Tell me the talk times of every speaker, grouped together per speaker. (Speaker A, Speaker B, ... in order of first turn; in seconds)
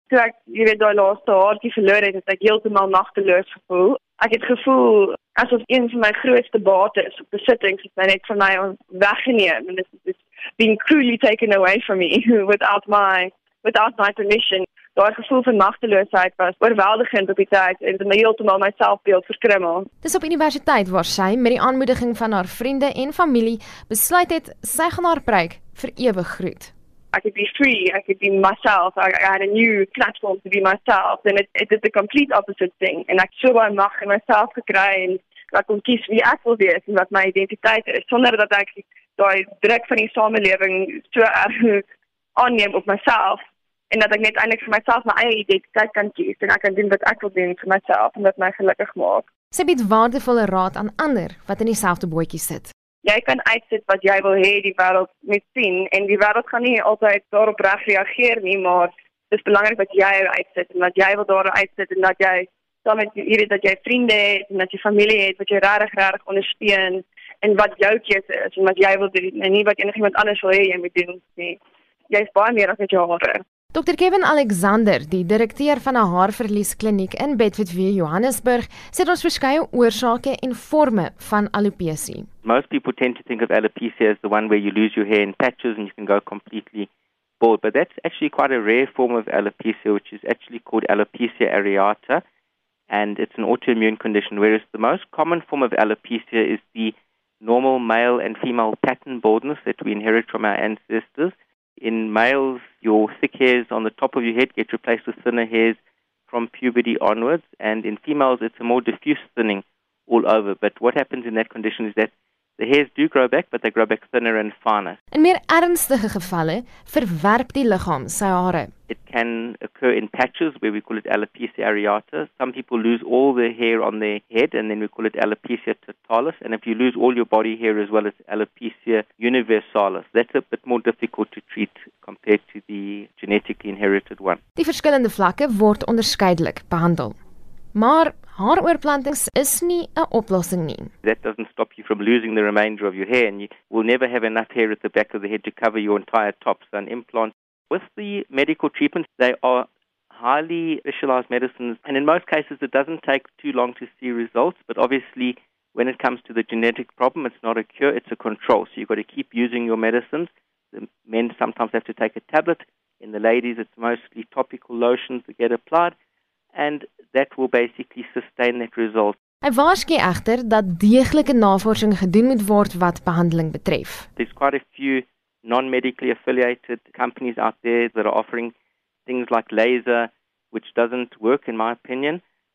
Speaker A: 0.1-19.9, 27.1-41.8, 42.4-49.3, 53.0-73.4
Speaker B: 20.0-26.7, 49.5-52.7, 73.7-82.3, 115.1-118.7, 134.6-137.2, 137.7-140.9, 169.4-174.1
Speaker C: 82.4-86.9, 87.4-92.2, 92.9-105.8, 106.3-115.0, 118.9-134.4, 141.0-165.9, 166.5-169.2, 174.2-178.5, 179.1-182.2